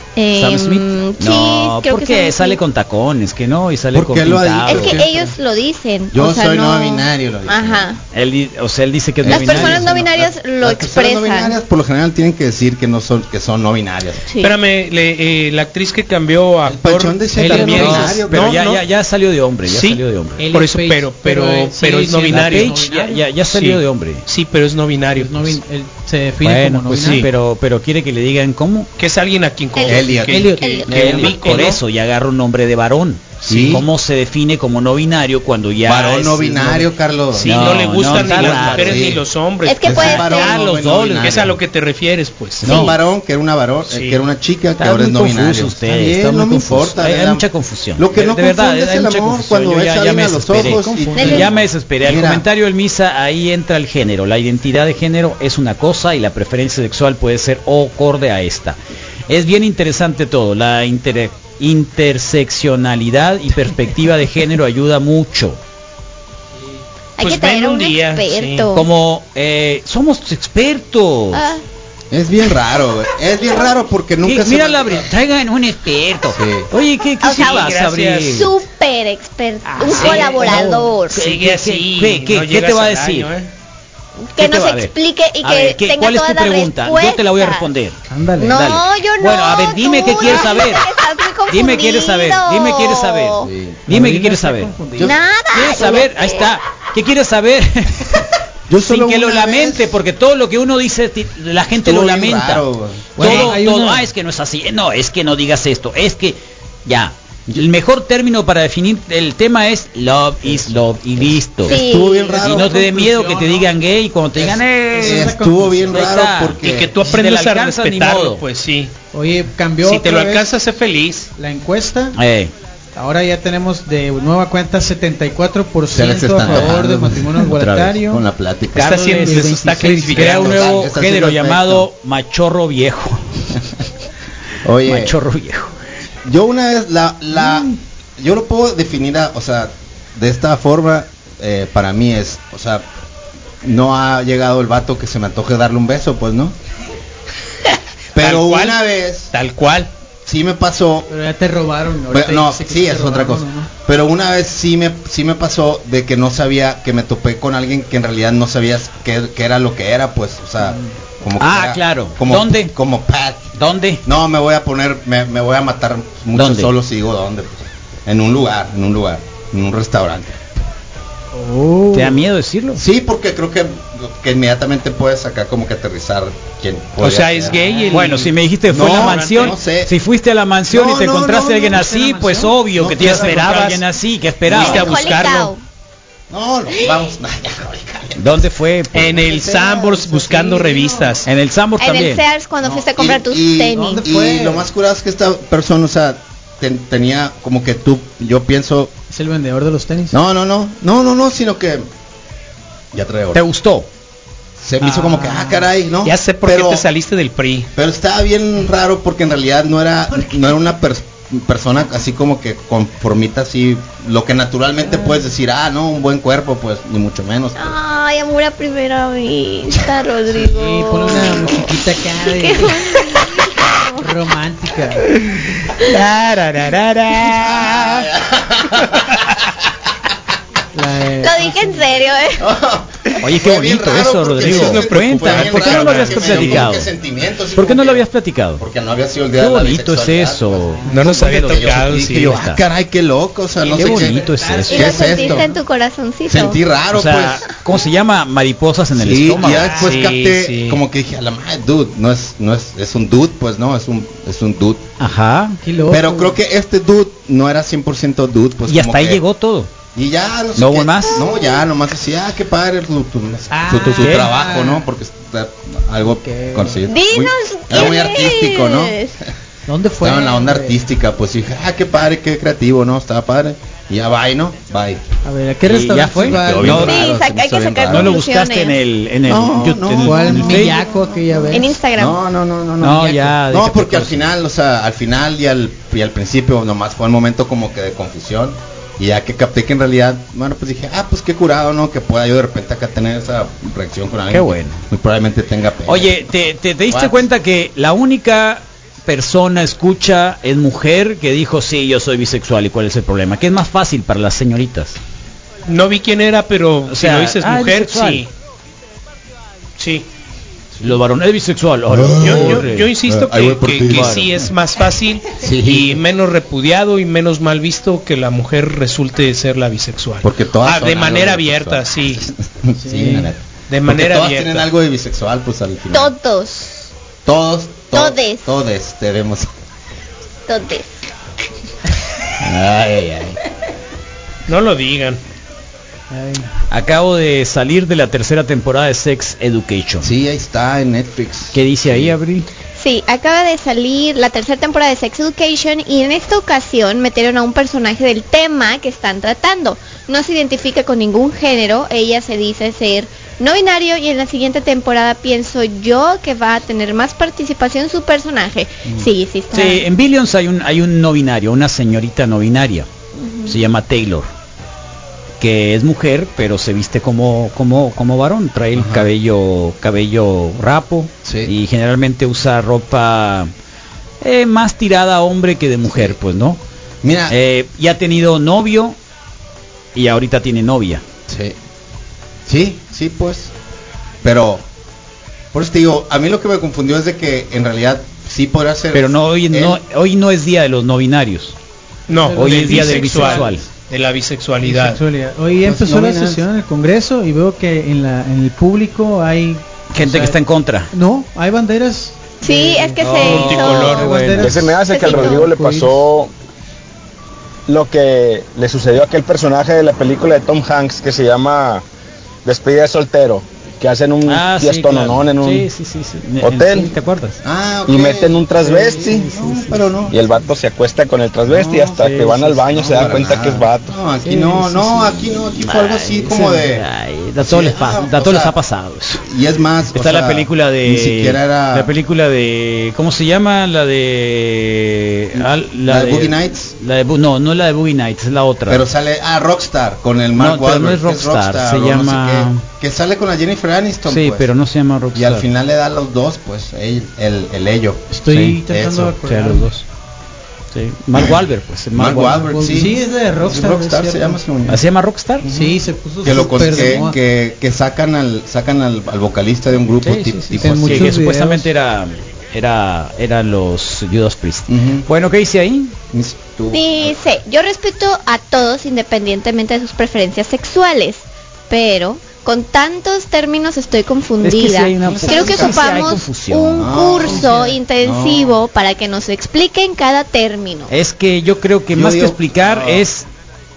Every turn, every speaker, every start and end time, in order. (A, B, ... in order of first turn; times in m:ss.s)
0:00.2-0:02.6 A
0:00.3-0:05.0 B
0:03.9-0:05.3 C
0:04.7-0:08.0 A
0:06.1-0:07.8 C
0:08.1-0:10.0 B
0:09.2-0:14.2 C
0:09.3-0:11.6 A
0:14.3-0:14.5 A
0:14.4-0:18.8 D
0:16.6-0:18.6 C
0:17.4-0:20.4 B
0:19.6-0:22.9 D
0:20.4-0:23.2 E
0:22.3-0:24.2 B
0:23.5-0:25.6 D
0:25.2-0:27.3 E
0:26.4-0:28.9 B
0:26.9-0:27.3 D
0:29.0-0:31.8 D
0:29.8-0:31.2 A
0:29.8-0:30.5 C
0:30.2-0:31.6 E
0:30.9-0:39.1 B
0:33.5-0:33.8 C
0:35.8-0:39.2 C
0:37.3-0:40.2 D
0:39.6-0:40.6 A
0:39.8-0:41.6 C
0:39.9-0:41.5 B
0:41.2-0:42.9 D
0:42.6-0:52.4 C
0:42.6-0:43.0 B
0:42.7-0:42.9 A
0:43.8-0:44.2 D
0:44.8-0:58.8 B
0:50.6-0:51.4 E
0:51.2-0:51.5 A
0:59.3-1:05.6 B
1:07.2-1:08.8 A
1:07.2-1:08.7 D
1:08.7-1:11.4 B
1:11.3-1:11.6 A
1:12.1-1:15.1 C
1:14.2-1:18.5 B
1:16.3-1:16.7 C
1:17.2-1:17.7 A
1:17.3-1:18.4 D
1:18.3-1:21.2 A
1:19.8-1:23.5 D
1:19.9-1:23.3 B
1:24.3-1:27.7 A
1:24.4-1:28.0 B
1:28.1-1:28.6 E
1:28.4-1:33.5 A
1:28.5-1:30.9 B
1:31.5-1:34.7 B
1:33.4-1:33.8 C
1:33.9-1:35.1 E
1:35.0-1:36.5 A
1:35.5-1:38.2 B
1:38.7-1:40.0 C
1:38.8-1:42.6 B
1:41.8-1:43.6 C
1:43.2-1:44.1 E
1:43.2-1:51.8 B
1:51.2-1:53.3 C
1:51.6-1:52.4 A
1:52.4-1:55.4 B
1:52.5-1:53.6 E
1:54.4-1:56.9 C
1:54.9-1:56.1 E
1:55.9-1:58.4 B
1:56.6-1:58.9 D
1:59.1-2:00.5 E
1:59.8-2:01.3 D
2:01.4-2:02.2 E
2:02.1-2:02.5 B
2:03.0-2:08.2 E
2:05.9-2:07.4 C
2:06.4-2:06.8 B
2:07.4-2:08.0 B
2:08.0-2:09.2 C
2:08.8-2:13.2 B
2:08.8-2:10.8 D
2:08.8-2:10.6 E
2:10.1-2:11.9 C
2:14.6-2:15.2 C
2:14.8-2:15.7 B
2:16.2-2:22.8 C
2:17.3-2:17.7 E
2:23.6-2:26.5 C
2:28.1-2:29.3 C
2:28.2-2:28.8 D
2:29.3-2:29.9 D
2:30.2-2:31.1 C
2:31.1-2:33.7 E
2:32.1-2:43.5 C
2:40.6-2:40.9 E
2:41.4-2:42.7 B
2:43.6-2:44.0 B
2:44.0-2:50.4 C
2:46.3-2:46.7 B
2:51.3-2:52.2 E
2:51.9-2:52.8 B
2:52.7-2:57.8 C
2:57.0-2:59.5 D
2:57.5-2:58.2 E
2:57.9-3:05.0 B
2:58.7-2:59.9 C
3:00.7-3:01.8 C
3:01.5-3:02.6 E
3:02.7-3:03.7 C
3:02.9-3:03.8 D
3:04.4-3:04.9 C
3:04.5-3:05.5 D
3:04.5-3:05.6 A
3:06.3-3:10.6 C
3:08.2-3:09.2 B
3:08.9-3:11.3 D
3:11.2-3:12.2 B
3:11.8-3:14.0 A
3:12.6-3:18.9 C
3:13.7-3:14.7 E
3:19.1-3:20.2 E
3:20.1-3:21.8 C
3:22.9-3:23.4 C
3:23.3-3:23.9 B
3:24.6-3:26.8 C
3:24.8-3:25.7 E
3:26.0-3:27.7 D
3:27.7-3:37.8 C
3:37.6-3:41.7 A
3:40.4-3:43.2 E
3:42.4-3:44.0 A
3:43.9-3:45.1 E
3:45.8-3:48.1 B
3:47.3-3:49.2 C
3:50.7-3:51.8 E
3:51.2-3:52.5 A
3:52.4-3:58.1 C
3:53.2-3:56.9 B
3:54.4-3:56.7 D
3:57.5-3:58.6 B
3:58.6-4:05.5 C
3:59.4-4:02.6 B
4:00.9-4:02.4 D
4:03.8-4:05.0 B
4:03.8-4:05.6 E
4:04.7-4:06.6 A
4:06.3-4:07.5 C
4:06.9-4:09.9 B
4:08.9-4:14.8 C
4:09.4-4:09.9 E
4:09.7-4:10.8 D
4:15.0-4:15.6 B
4:15.6-4:16.4 E
4:15.9-4:19.2 C
4:18.7-4:19.7 B
4:19.9-4:29.3 C
4:20.6-4:21.2 B
4:21.1-4:21.6 A
4:23.5-4:24.8 E
4:23.9-4:24.3 B
4:26.0-4:26.8 E
4:26.9-4:29.1 A
4:29.7-4:30.8 E
4:30.0-4:35.0 C
4:35.2-4:37.1 E
4:35.6-4:37.1 B
4:36.1-4:38.2 C
4:36.8-4:38.8 A
4:37.9-4:40.8 B
4:39.2-4:56.2 C
4:40.0-4:41.8 E
4:41.5-4:42.2 A
4:42.8-4:44.2 B
4:54.3-4:54.8 B
4:55.8-5:05.0 B
4:56.9-4:57.3 C
5:05.6-5:08.3 D
5:06.9-5:08.2 B
5:09.8-5:10.0 D
5:10.8-5:12.9 B
5:11.9-5:14.3 C
5:12.2-5:22.2 D
5:13.8-5:14.3 B
5:15.3-5:16.0 C
5:20.2-5:26.1 C
5:22.8-5:23.3 E
5:23.7-5:24.7 D
5:25.9-5:26.9 A
5:27.2-5:29.5 C
5:27.9-5:28.5 A
5:30.5-5:30.9 A
5:32.4-5:33.4 C
5:34.5-5:35.2 D
5:36.1-5:36.5 E
5:36.7-5:40.1 B
5:40.0-5:42.2 C
5:41.5-5:42.5 B
5:42.8-5:59.8 A
5:59.5-6:02.9 B
6:03.2-6:03.6 A
6:03.4-6:04.3 B
6:05.4-6:13.5 B
6:08.7-6:09.1 C
6:11.2-6:11.5 C
6:14.2-6:16.6 B
6:15.9-6:16.1 C
6:17.0-6:17.4 C
6:17.3-6:19.0 B
6:19.9-6:21.0 B
6:21.3-6:21.5 C
6:22.5-6:23.5 C
6:24.2-6:24.6 C
6:25.5-6:29.8 C
6:28.9-6:31.6 B
6:32.1-6:35.0 D
6:32.1-6:33.6 E
6:32.3-6:33.6 B
6:34.7-6:34.9 C
6:34.7-6:40.4 E
6:35.6-6:36.4 C
6:39.9-6:40.9 B
6:40.9-6:46.1 E
6:42.4-6:44.1 A
6:43.0-6:44.6 B
6:43.2-6:44.1 D
6:44.4-6:46.3 F
6:44.9-6:45.4 A
6:47.7-6:51.8 F
6:52.4-6:55.7 F
6:54.2-6:57.4 B
6:56.4-6:56.9 F
6:57.4-7:00.2 C
6:57.8-6:59.3 F
6:58.7-6:59.9 E
7:00.1-7:04.0 F
7:01.5-7:02.0 C
7:01.5-7:03.4 B
7:02.7-7:06.8 C
7:04.2-7:09.2 B
7:07.4-7:08.5 C
7:09.2-7:11.9 C
7:09.9-7:18.8 B
7:15.4-7:16.7 C
7:18.7-7:24.5 C
7:20.4-7:22.6 B
7:24.1-7:25.4 B
7:25.1-7:28.1 C
7:28.1-7:29.7 E
7:28.3-7:28.6 B
7:28.7-7:29.1 C
7:29.2-7:29.8 B
7:30.7-7:32.5 B
7:31.2-7:31.4 C
7:31.9-7:34.8 C
7:32.4-7:34.4 E
7:34.7-7:35.5 B
7:35.4-7:41.2 C
7:35.5-7:37.2 E
7:36.4-7:37.0 B
7:40.0-7:45.9 B
7:40.6-7:41.7 E
7:44.7-7:45.1 C
7:46.1-7:47.1 C
7:46.7-8:00.9 A
7:54.4-7:56.9 B
7:55.0-7:56.2 C
7:56.8-7:58.6 C
7:57.2-7:57.8 E
8:00.9-8:03.2 B
8:01.9-8:03.0 C